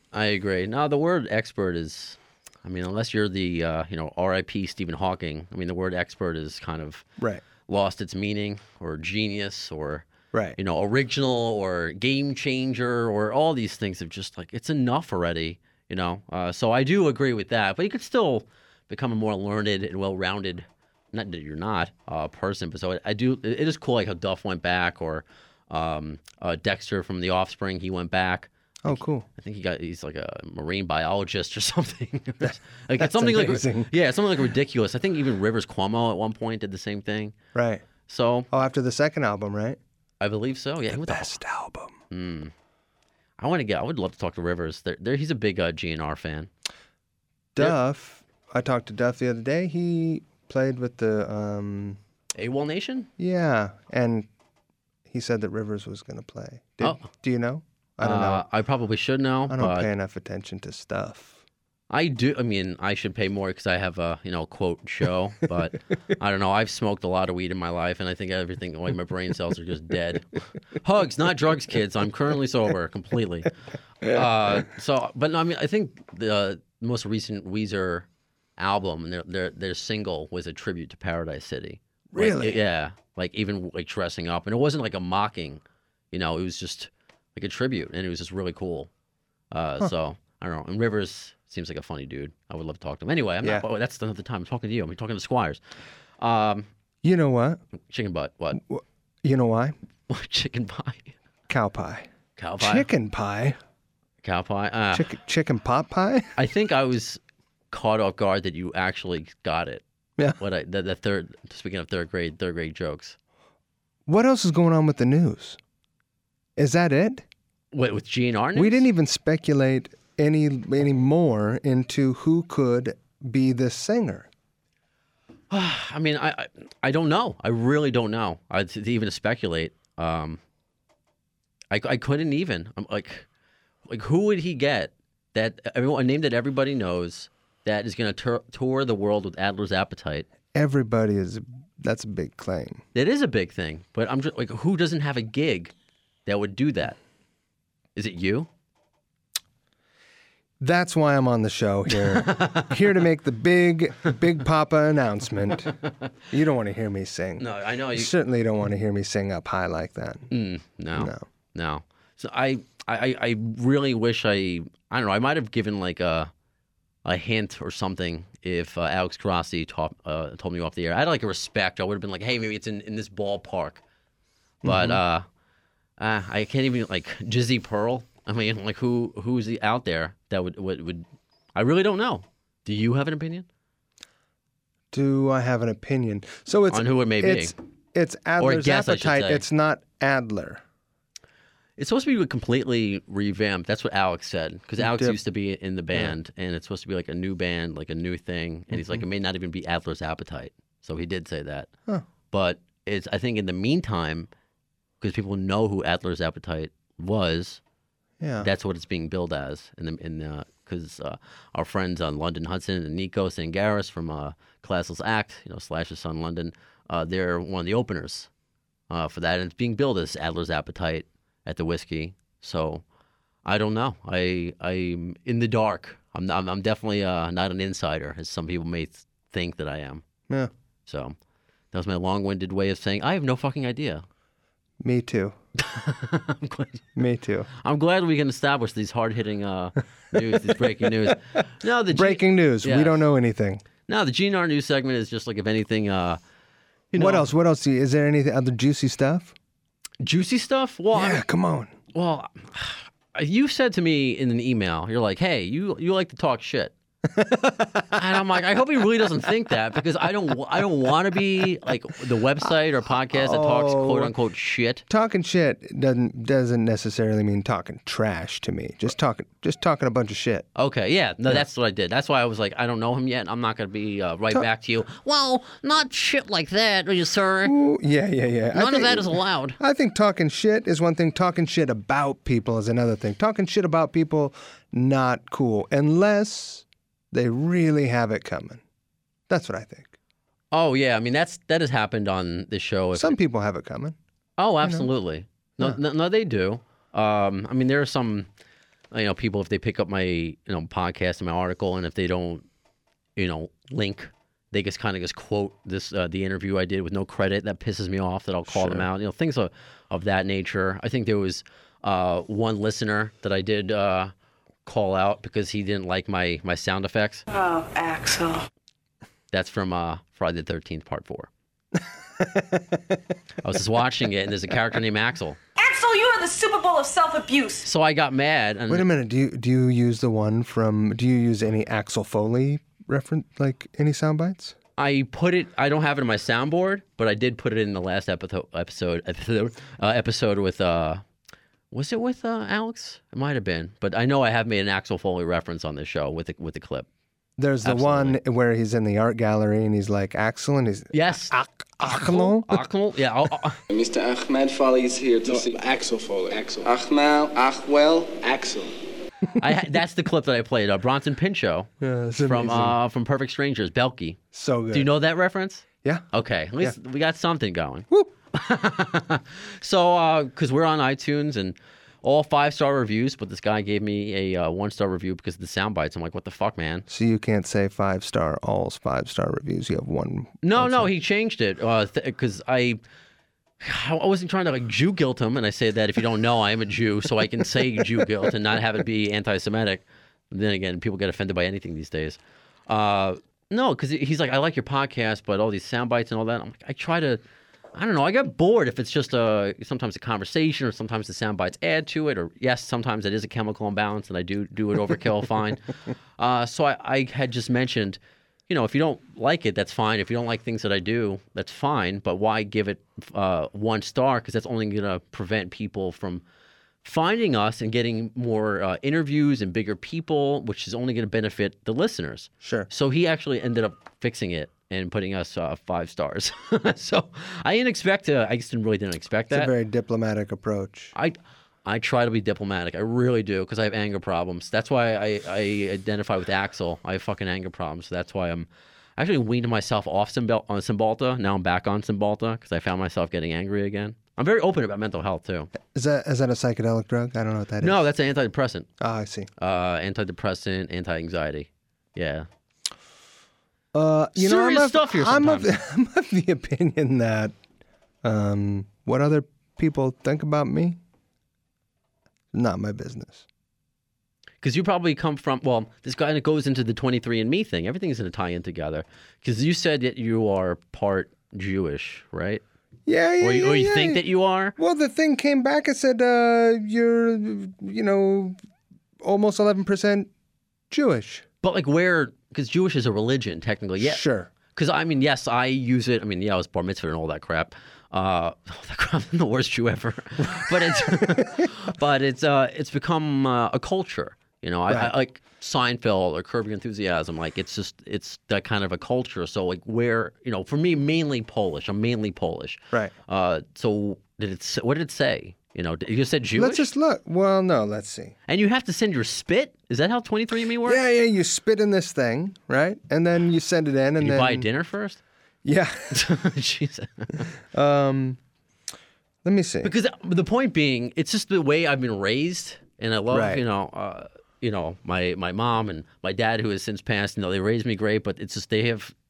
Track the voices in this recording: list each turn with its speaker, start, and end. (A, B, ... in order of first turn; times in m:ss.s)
0:00.1-0:07.0 A
0:07.6-0:37.4 A
0:10.3-0:10.6 B
0:28.8-0:29.2 B
0:32.4-0:33.9 B
0:37.5-0:37.8 B
0:38.1-0:38.5 A
0:38.5-0:39.8 B
0:40.2-0:41.4 A
0:40.9-0:41.9 B
0:42.1-0:42.5 A
0:43.4-0:46.5 A
0:47.5-0:52.0 B
0:52.4-0:53.1 A
0:53.2-0:54.3 B
0:55.1-0:58.4 B
0:56.8-0:57.1 A
0:58.0-0:59.9 A
0:59.5-1:01.4 B
1:01.9-1:18.0 A
1:18.6-1:28.9 A
1:22.1-1:22.6 B
1:29.5-1:35.6 A
1:36.2-1:36.7 A
1:37.0-1:37.6 B
1:37.9-1:38.6 A
1:38.5-1:39.8 B
1:40.1-1:41.1 A
1:41.5-1:42.1 B
1:42.4-1:42.8 A
1:42.6-1:43.6 B
1:44.2-1:45.1 A
1:44.9-1:46.3 B
1:46.4-1:47.2 A
1:47.7-1:49.8 A
1:50.4-1:53.2 A
1:54.1-1:55.6 B
1:56.6-1:57.2 B
1:57.7-1:58.8 A
1:58.5-2:04.3 B
2:05.5-2:10.4 A
2:11.7-2:13.2 A
2:13.9-2:20.2 A
2:20.5-2:22.8 B
2:22.9-2:25.7 A
2:26.2-2:27.0 A
2:28.0-2:28.5 A
2:30.6-2:35.7 B
2:32.0-2:32.8 A
2:36.3-2:40.3 B
2:37.4-2:38.1 A
2:40.3-2:46.3 A
2:40.9-2:41.2 B
2:47.0-2:53.8 A
2:54.6-2:55.0 B
2:54.6-2:55.2 A
2:56.0-3:01.0 A
3:01.6-3:03.4 A
3:04.9-3:10.6 B
3:06.7-3:07.5 A
3:08.4-3:09.4 A
3:11.8-3:21.7 A
3:14.8-3:15.2 B
3:18.7-3:19.0 B
3:22.3-3:24.3 A
3:25.0-3:27.6 A
3:28.2-3:28.5 B
3:28.4-3:38.3 A
3:38.9-3:42.8 A
3:43.4-3:50.0 A
3:50.8-3:51.2 A
3:51.7-3:54.0 A
3:54.8-3:55.4 B
3:55.6-3:56.9 A
3:57.0-3:57.5 B
3:57.6-4:03.0 A
4:00.1-4:00.8 B
4:01.9-4:03.6 B
4:03.9-4:06.2 A
4:06.9-4:07.2 A
4:06.9-4:09.3 B
4:10.0-4:11.2 A
4:10.9-4:11.7 B
4:11.9-4:16.7 A
4:17.1-4:18.0 B
4:17.9-4:24.8 A
4:23.1-4:24.1 B
4:24.9-4:30.4 B
4:30.6-4:37.5 A
4:37.4-4:48.6 B
4:38.5-4:39.6 A
4:49.3-4:49.9 B
4:50.5-4:53.2 A
4:52.9-4:54.0 B
4:54.4-4:58.3 A
4:54.6-4:54.9 B
4:58.9-5:02.4 A
5:03.2-5:14.1 A
5:08.4-5:08.9 B
5:14.6-5:17.2 A
5:17.3-5:18.4 C
5:19.3-5:21.3 A
5:22.2-5:23.0 B
5:23.4-5:25.4 A
5:25.6-5:27.7 C
5:27.6-5:28.9 A
5:28.7-5:34.5 B
5:34.8-5:41.0 A
5:41.7-5:46.9 A
5:47.4-5:52.6 B
5:47.6-5:48.2 A
5:50.9-5:53.6 A
5:53.7-5:58.8 D
5:59.4-6:01.7 A
6:01.8-6:02.8 B
6:02.2-6:04.2 A
6:04.3-6:04.9 B
6:04.7-6:16.9 A
6:16.9-6:20.9 B
6:20.4-6:22.8 A
6:23.6-6:37.2 A
6:37.7-6:56.2 A
6:56.8-7:09.5 A
7:02.4-7:02.7 B
7:09.3-7:10.9 B
7:10.9-7:25.5 A
7:25.7-7:27.8 B
7:27.6-7:28.7 A
7:28.8-7:29.3 B
7:29.4-7:32.3 A
7:33.7-7:37.3 B
7:34.2-7:35.5 A
7:38.0-7:40.8 B
7:42.3-7:43.2 B
7:44.4-7:52.4 A
7:52.9-7:54.0 B
7:53.2-7:54.5 A
7:54.6-7:58.4 B
7:59.0-8:00.1 B
8:00.7-8:01.2 B
8:01.4-8:04.0 A
8:03.8-8:04.3 B
8:04.5-8:26.7 A
8:26.4-8:28.1 B
8:28.3-8:30.8 A
8:30.6-8:34.5 B
8:34.0-8:35.0 A
8:35.4-8:36.0 B
8:35.9-8:37.3 A
8:37.5-8:38.2 B
8:39.2-8:39.7 B
8:39.6-8:48.9 A
8:43.1-8:43.4 B